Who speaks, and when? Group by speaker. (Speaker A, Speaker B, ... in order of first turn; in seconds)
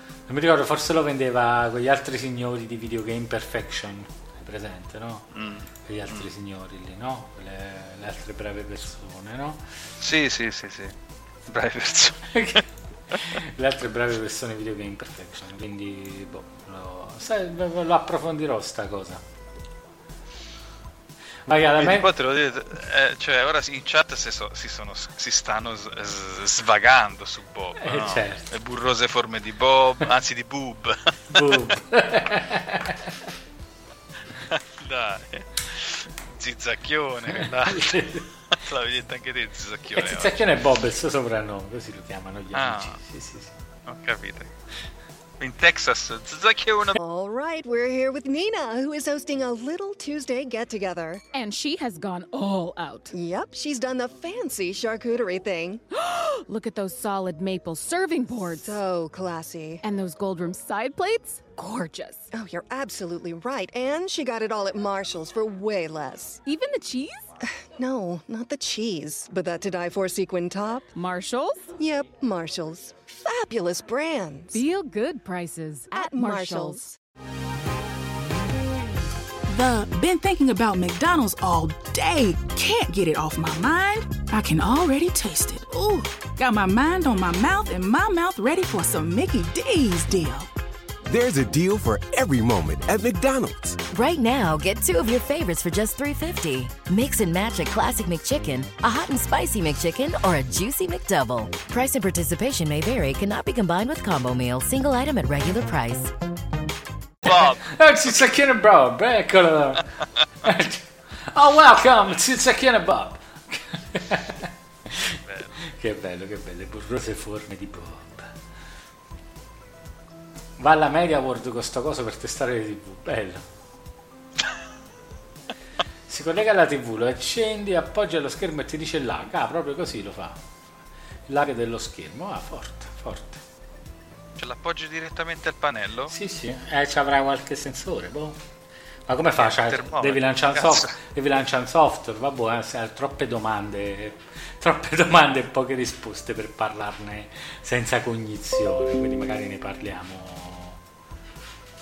Speaker A: 0.3-5.3, 5.8-9.7, 12.3-19.2, 21.5-22.1, 27.8-28.5, 31.3-33.1, 37.3-38.3, 39.9-43.5, 107.2-109.9, 110.4-118.3, 120.6-123.4, 126.1-130.4, 131.3-133.4, 136.1-138.4, 139.1-150.8
Speaker B: 5.3-6.3, 10.0-10.9, 11.5-12.6, 21.8-31.6, 34.5-40.4, 42.5-43.0, 43.9-44.5, 45.4-47.0, 107.2-107.7, 115.2-115.5, 134.4-136.1, 139.4-140.9
Speaker C: 47.0-51.2, 53.1-55.8, 58.6-59.8, 62.3-66.4, 67.8-70.9, 71.8-74.7, 75.9-76.9
Speaker D: 51.3-53.1, 56.0-58.8, 59.8-62.3, 66.5-67.3, 70.9-71.7, 74.5-76.9
Speaker E: 79.5-90.5
Speaker F: 91.1-93.8
Speaker G: 93.9-106.1